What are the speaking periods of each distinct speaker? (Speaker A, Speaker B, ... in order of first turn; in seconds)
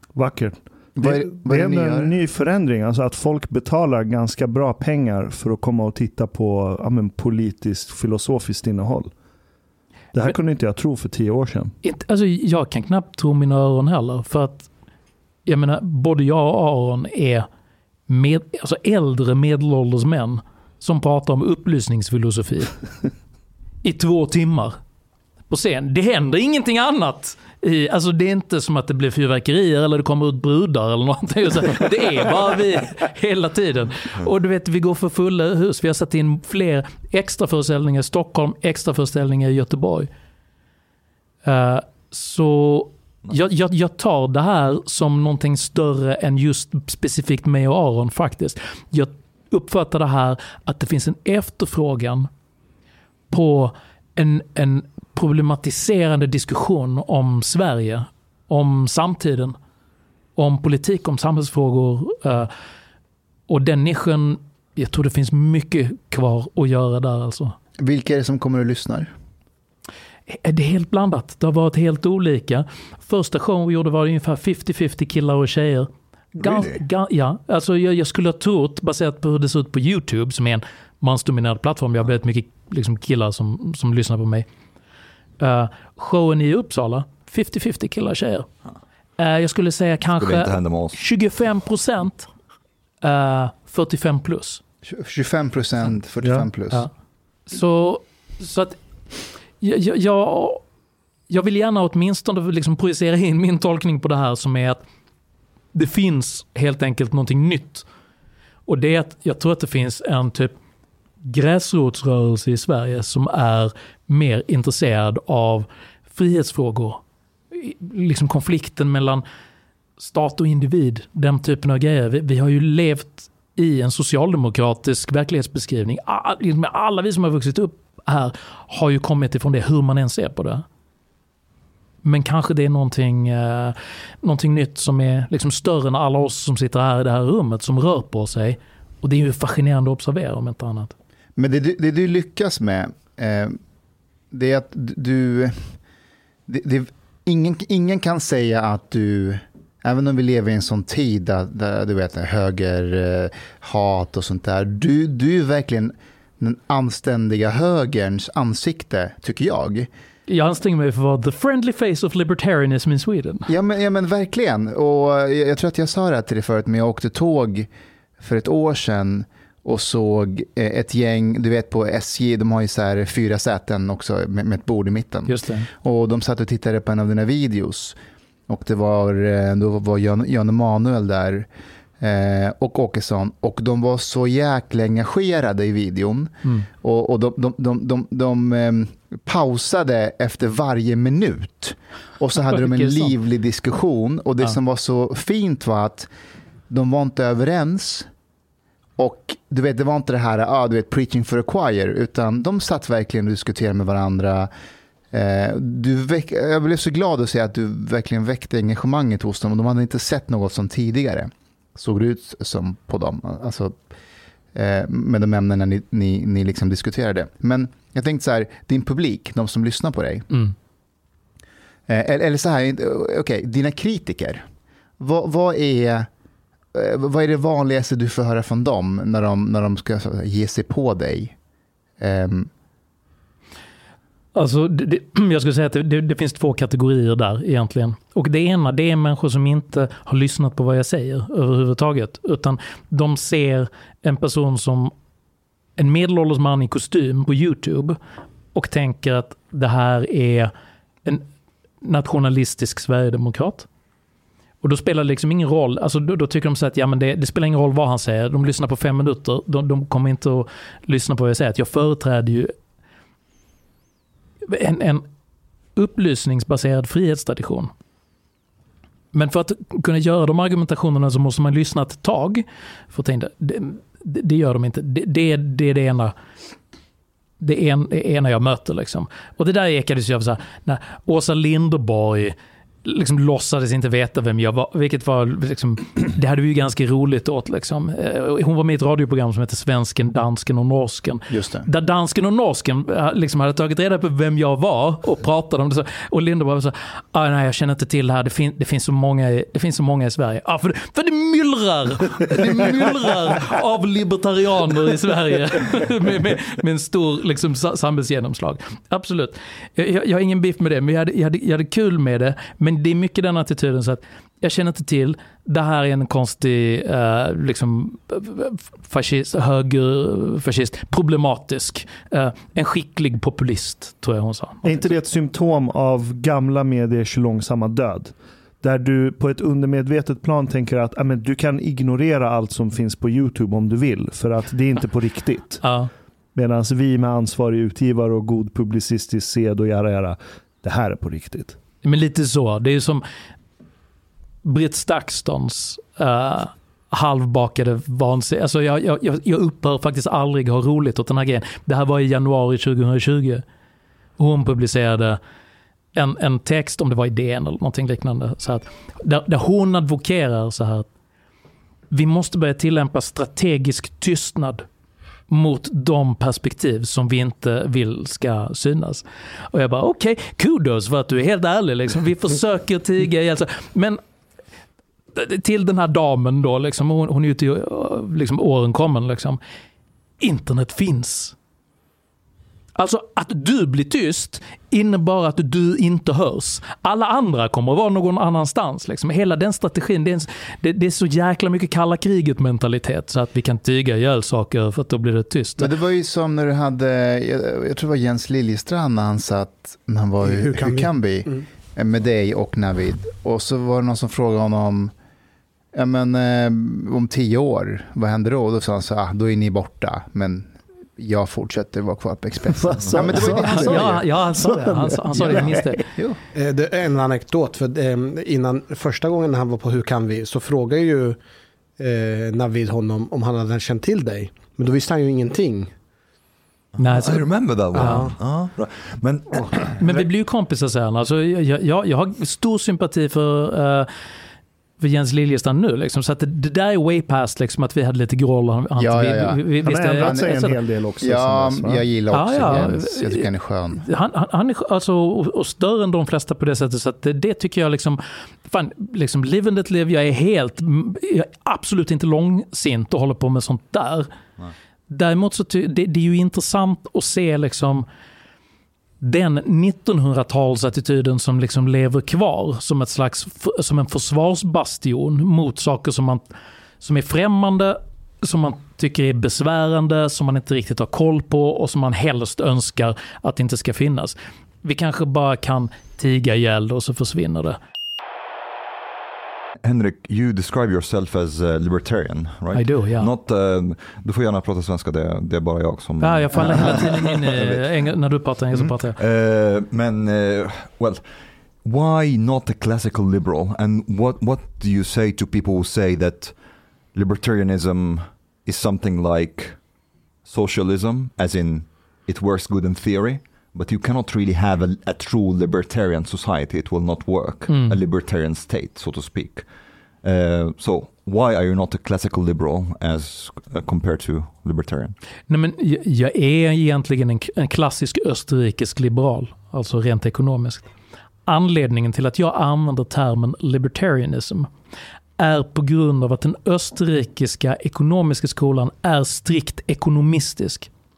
Speaker A: 0.1-9.1, 10.1-11.8, 96.2-96.5, 324.6-335.6, 336.4-341.6, 412.5-415.9, 439.6-441.9, 442.4-442.7
Speaker B: 1.0-2.1, 67.8-69.1, 94.9-96.9, 141.4-143.6, 144.3-145.7, 146.5-159.9, 163.5-167.7, 168.2-178.0, 178.5-181.5, 182.0-196.1, 196.7-198.1, 199.0-204.5, 205.1-213.8, 214.6-220.3, 221.9-224.4, 225.0-226.1, 226.7-231.3, 232.0-232.5, 291.3-291.7, 395.6-404.9, 405.8-414.1, 415.2-416.2, 438.8-440.4, 441.0-443.8, 486.3-487.6
Speaker C: 11.8-14.7, 15.5-17.5, 18.1-22.8, 23.8-24.8, 25.5-40.1, 41.5-52.3, 53.3-59.6, 60.4-62.5, 63.5-67.6, 70.3-84.5, 85.4-88.5, 89.2-92.3, 93.0-94.6, 97.5-98.8, 99.6-100.6, 101.3-104.8, 105.7-107.9, 108.7-110.5, 111.2-117.0, 117.5-119.2, 120.0-130.7, 132.0-140.9, 160.3-163.5, 175.3-175.7, 192.4-193.1, 234.3-244.9, 245.8-248.0, 248.5-250.5, 251.8-253.7, 254.6-262.5, 264.4-265.1, 265.8-267.7, 269.1-276.1, 277.4-324.9, 335.6-335.9, 341.8-343.1, 344.4-353.4, 354.2-355.2, 355.9-360.9, 361.9-364.7, 365.3-374.0, 375.1-379.4, 380.2-381.4, 382.8-395.7, 413.4-415.8, 426.8-428.1, 429.8-433.9, 434.8-440.6, 442.1-454.1, 454.9-457.9, 459.0-466.2, 466.8-477.6, 482.5-483.1, 486.0-489.0, 507.5-507.8, 515.3-520.7, 521.3-524.5, 525.2-530.7
Speaker D: 90.2-91.0, 426.8-430.1, 479.6-487.6, 489.0-491.1, 491.6-496.4, 496.9-499.6, 500.2-509.5, 510.0-515.0
Speaker E: 400.2-401.5, 416.3-421.2, 421.8-425.7, 427.7-428.2